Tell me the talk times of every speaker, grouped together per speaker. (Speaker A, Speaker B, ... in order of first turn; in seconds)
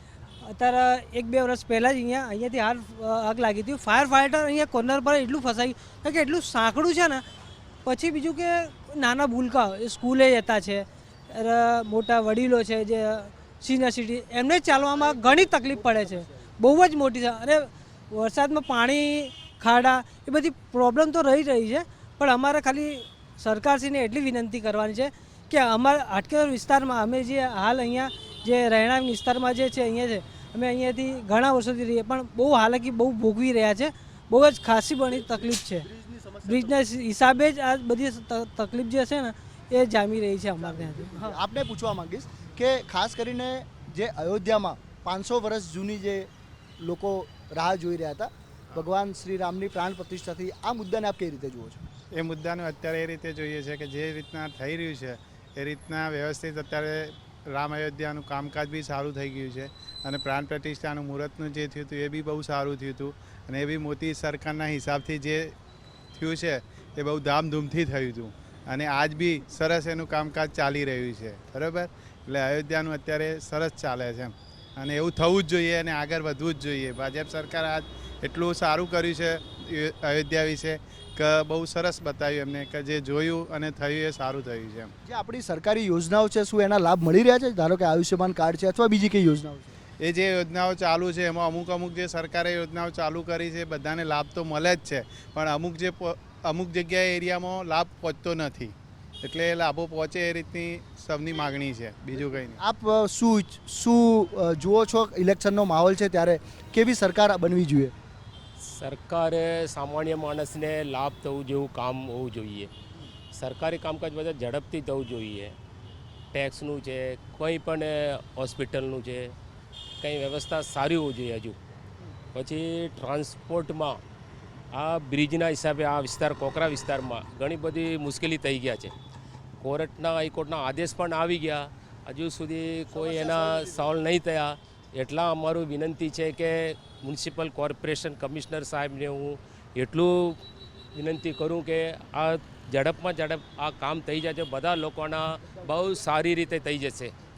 Speaker A: 0.4-7.2, 7.8-35.9, 36.4-41.4
Speaker B: 14.9-16.4, 35.1-36.7, 40.6-46.3, 46.8-51.8, 85.0-89.7, 102.5-107.9, 133.0-133.8
Speaker C: 52.1-65.5, 66.2-84.9, 90.0-102.6
Speaker D: 108.6-112.7, 113.3-115.5, 116.3-119.3, 120.0-121.5, 122.3-124.0, 124.7-128.9, 129.6-140.4, 140.9-147.1